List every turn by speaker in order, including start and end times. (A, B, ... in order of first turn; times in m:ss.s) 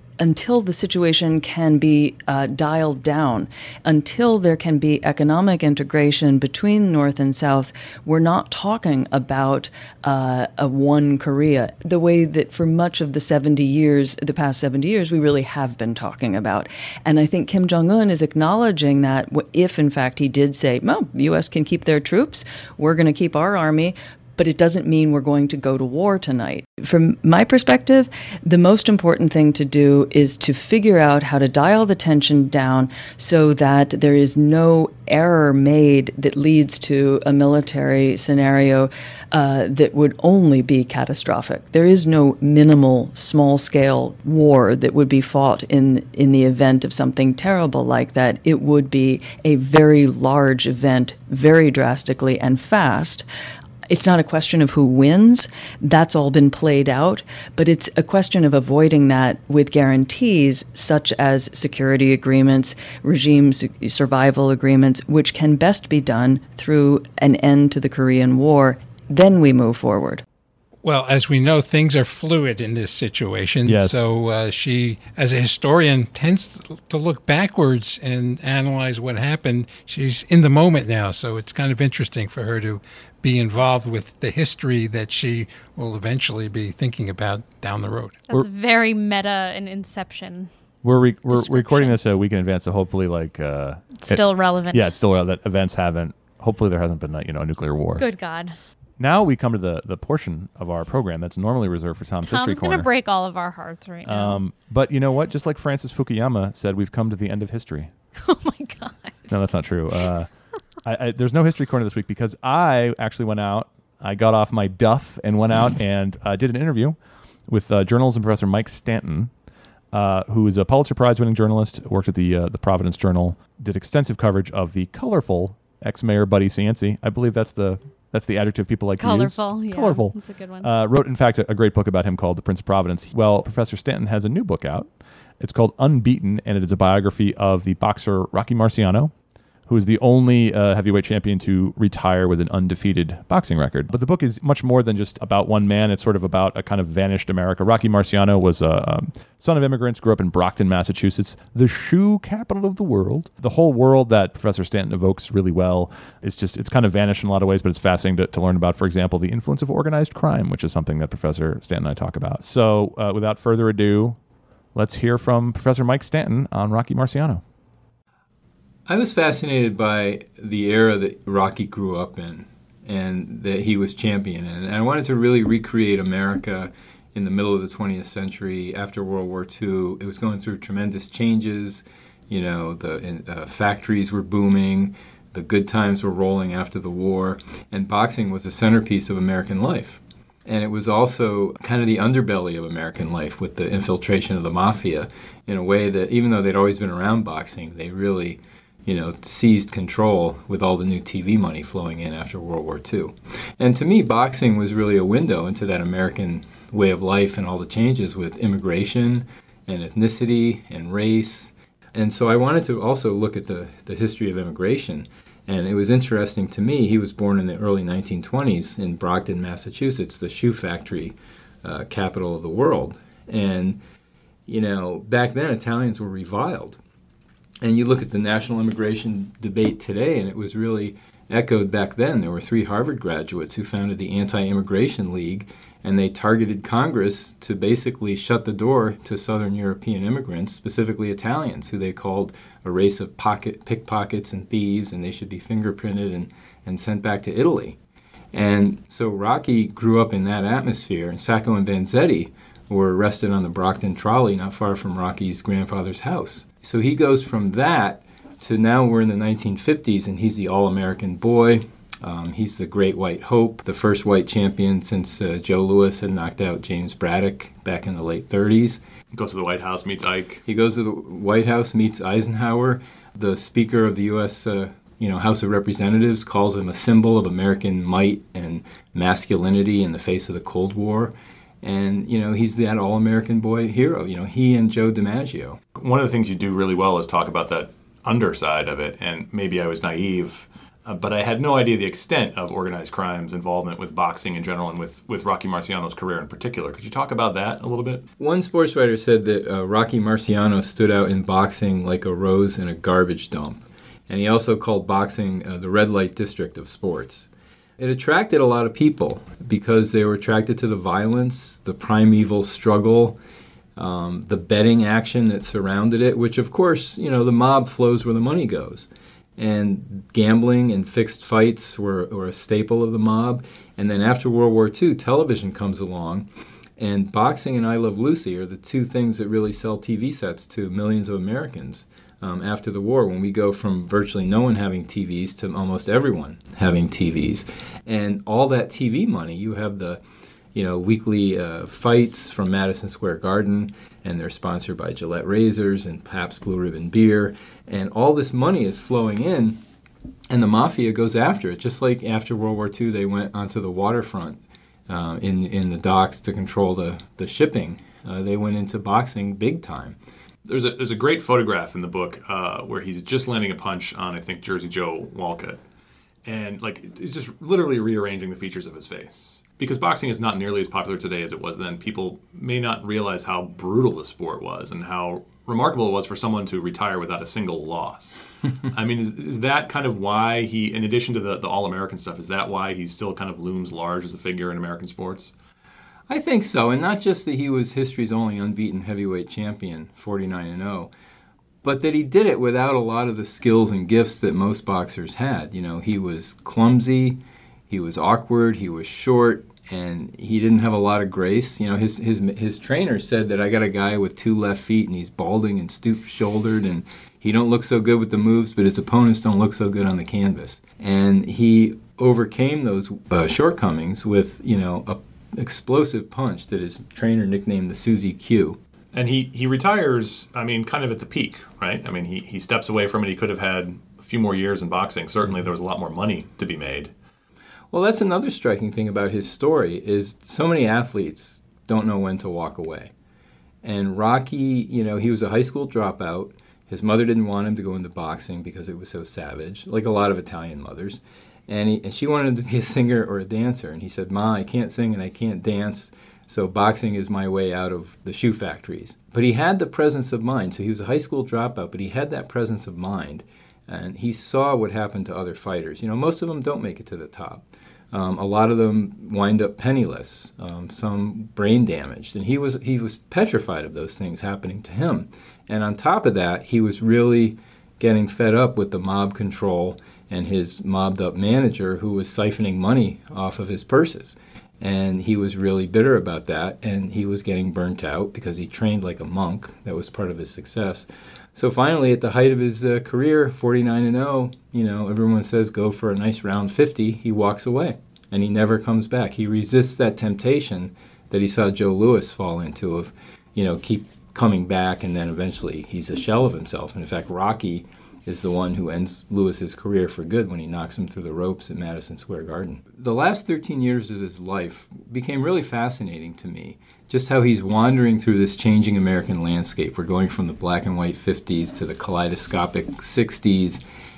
0:00.2-0:53.3 A
0:53.9-1:10.2 A
1:10.8-1:28.2 B
1:13.6-1:14.1 C
1:28.3-1:30.5 D
1:30.8-1:34.2 C
1:31.3-1:32.0 D
1:34.0-1:34.9 D
1:34.7-1:38.1 C
1:38.0-1:38.6 D
1:39.0-1:42.9 C
1:42.3-1:44.4 D
1:44.0-1:47.9 C
1:48.2-1:49.3 D
1:49.3-1:50.3 C
1:50.8-1:57.0 C
1:57.5-1:59.3 C
1:59.9-2:14.9 C
2:09.0-2:10.7 D
2:15.4-2:19.1 C
2:19.7-2:44.2 C
2:44.8-2:47.4 C
2:48.9-3:43.8 E
3:44.5-3:46.8 E
3:47.6-4:07.8 E
4:08.3-4:28.8 E
4:29.1-4:30.4 C
4:30.5-4:45.6 E
4:45.8-4:58.1 C
4:58.2-5:13.2 E
5:13.8-5:26.3 E
5:26.8-5:40.0 E
5:40.6-5:49.6 E
5:50.3-6:00.0 E
6:00.4-6:05.6 C
6:06.2-6:25.3 C
6:26.1-6:30.9 E
6:31.6-6:58.6 E
6:58.9-7:06.9 C
7:07.7-7:12.9 E
7:13.6-8:33.6 E